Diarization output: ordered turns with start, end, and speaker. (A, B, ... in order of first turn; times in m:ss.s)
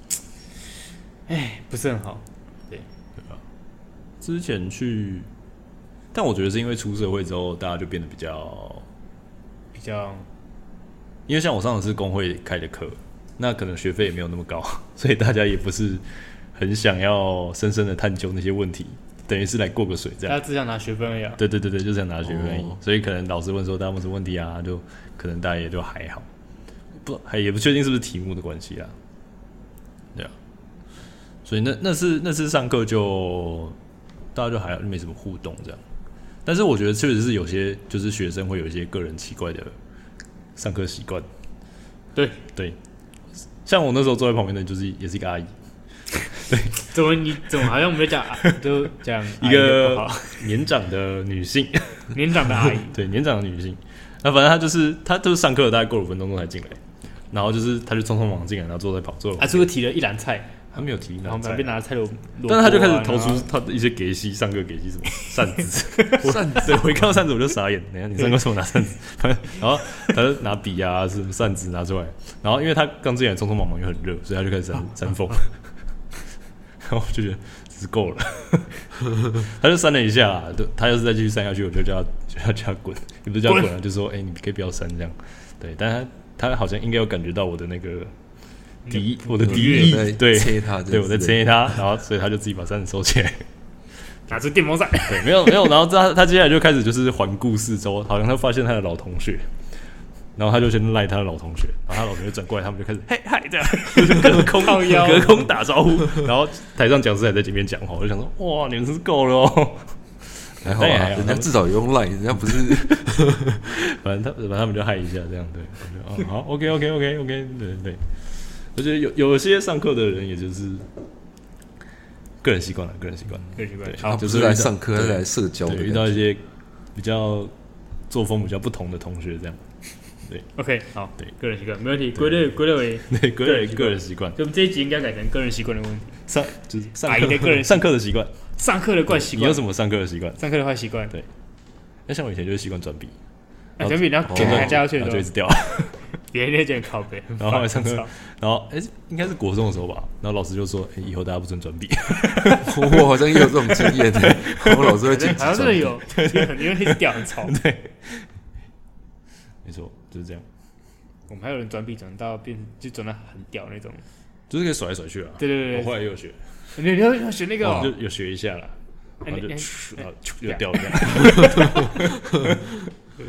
0:01.3-0:02.9 A
0:04.2-0:05.3 B
0:06.1-0:08.8 B
0:09.7-0:10.3 A
0:11.3-0:20.4 B
0:20.3-0:21.4 A
0:21.4-0:26.2 B
0:22.2-0:22.8 C
0:27.0-0:28.9 B
0:31.4-0:33.8 B
0:34.3-0:35.8 B
0:36.4-0:39.7 B
0:40.6-0:41.3 B
0:42.1-0:42.4 A
0:43.6-0:45.5 B
0:46.3-0:46.9 B
0:46.8-0:50.5 A
0:49.4-0:56.8 B
0:52.1-0:53.0 A
0:57.3-0:59.7 B
0:59.4-1:00.7 A
1:00.7-1:01.7 B
1:01.2-1:03.5 A
1:02.5-1:15.5 B
1:06.2-1:07.1 C
1:08.2-1:08.4 A
1:16.8-1:28.1 B
1:28.8-1:30.1 A
1:28.9-1:33.4 B
1:29.4-1:31.4 C
1:34.3-1:35.5 A
1:35.1-1:39.4 B
1:40.4-1:51.5 B
1:43.8-1:45.5 A
1:50.6-1:53.5 C
1:52.5-2:00.9 B
2:02.4-2:06.4 B
2:03.6-2:04.2 A
2:04.0-2:06.2 C
2:06.9-2:07.5 B
2:08.1-2:09.6 B
2:10.5-2:16.2 A
2:13.1-2:14.4 B
2:16.3-2:18.3 B
2:17.0-2:17.9 A
2:18.6-2:19.6 A
2:19.1-2:20.4 B
2:20.4-2:21.2 A
2:22.1-2:23.1 B
2:23.8-2:25.3 A
2:23.8-2:26.0 B
2:24.3-2:24.8 C
2:26.3-2:28.1 A
2:27.4-2:35.4 B
2:32.6-2:36.0 C
2:35.0-2:37.6 A
2:36.0-2:38.3 B
2:39.6-2:40.4 B
2:41.3-2:44.0 A
2:44.5-2:46.4 B
2:45.4-2:46.0 A
2:46.7-2:48.0 A
2:47.6-2:48.7 B
2:49.2-2:51.8 A
2:49.2-2:52.7 B